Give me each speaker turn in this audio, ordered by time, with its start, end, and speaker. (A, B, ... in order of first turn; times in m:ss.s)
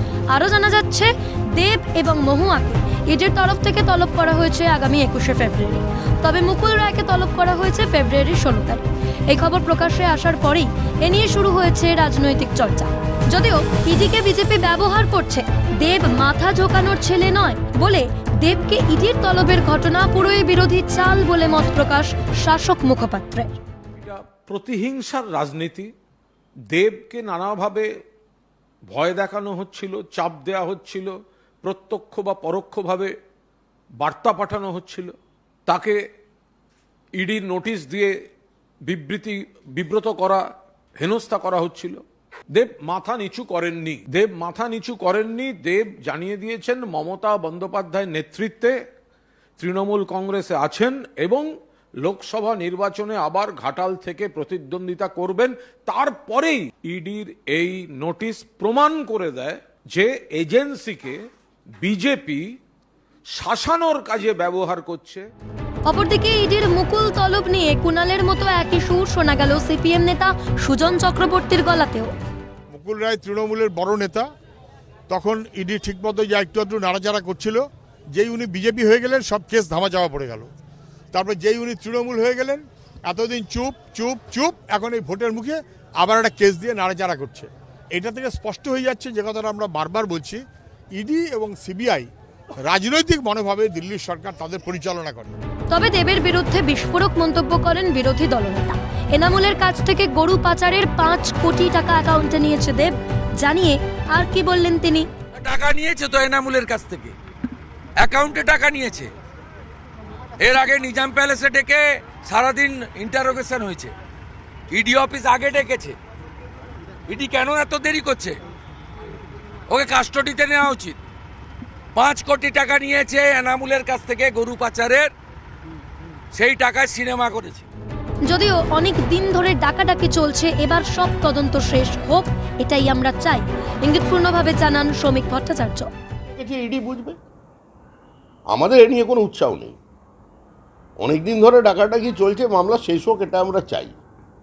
0:00.3-0:23.5 A
0:24.0-0:25.9 B
0:26.7-0:27.9 B
0:28.9-0:33.1 B
0:34.0-0:35.2 B
0:35.7-0:36.0 B
0:37.2-0:38.1 B
0:38.8-0:40.4 B
0:41.0-0:42.0 B
0:42.5-0:48.8 B
0:49.6-0:51.5 B
0:52.0-1:01.2 B
1:01.8-1:02.4 B
1:03.3-1:05.2 B
1:05.8-1:12.1 A
1:12.7-1:14.3 C
1:15.1-1:20.5 C
1:21.1-1:30.4 C
1:30.9-1:32.1 C
1:32.6-1:35.3 C
1:35.7-1:45.1 A
1:45.3-1:47.1 D
1:48.0-1:49.1 D
1:50.4-1:53.9 D
1:54.7-1:56.0 D
1:57.1-1:58.4 D
1:59.7-2:01.0 D
2:01.9-2:05.1 D
2:06.3-2:07.6 D
2:08.2-2:15.9 A
2:16.3-2:17.2 E
2:18.5-2:19.8 E
2:21.0-2:24.0 E